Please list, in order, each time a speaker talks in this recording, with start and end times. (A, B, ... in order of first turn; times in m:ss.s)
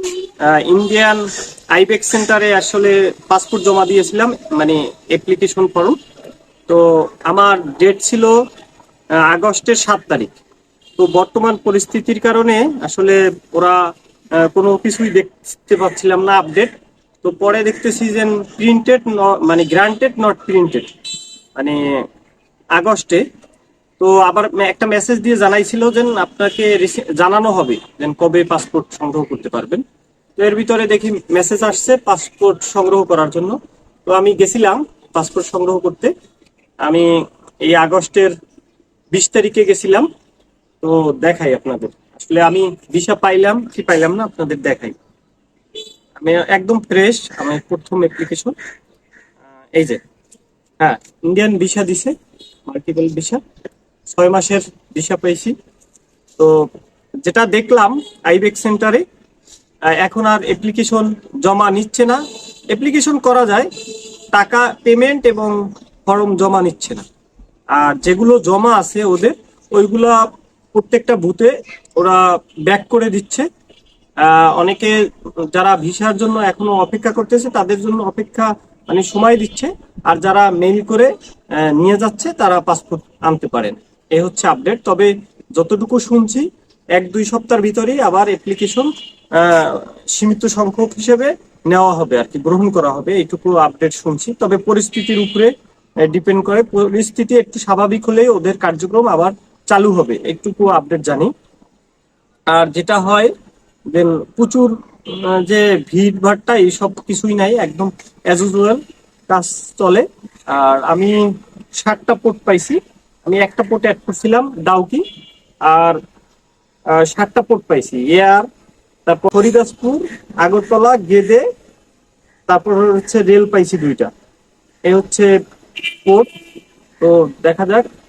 0:00.4-0:06.0 A
0:06.7-0:08.4 A
0:09.2-0:10.3 A
0:11.0-0:13.8 A
0:14.4-0:20.9 A
0:21.6-0:21.8 A
0:22.7-0:23.2 A
0:24.0-0:29.8 A
0:30.4-0:36.1 A
0:36.8-0:38.3 A
0:39.1-0:40.1 A
0:40.8-0:45.0 A
0:46.2-0:48.5 A
0:49.7-0:50.0 A
0:50.8-0:52.1 A
0:52.7-0:53.4 A
0:54.1-0:55.6 A
0:56.4-0:56.6 A
0:57.2-0:59.0 A
0:59.9-1:03.7 A
1:04.3-1:07.0 A
1:07.7-1:13.5 A
1:14.2-1:41.3 A
1:42.5-1:43.3 A
1:43.9-1:51.2 A
1:51.8-1:55.0 A
1:55.7-1:56.0 A
1:56.9-1:58.5 A
1:59.0-2:01.4 A
2:02.5-2:04.1 A
2:04.9-2:06.3 A
2:07.0-2:07.9 A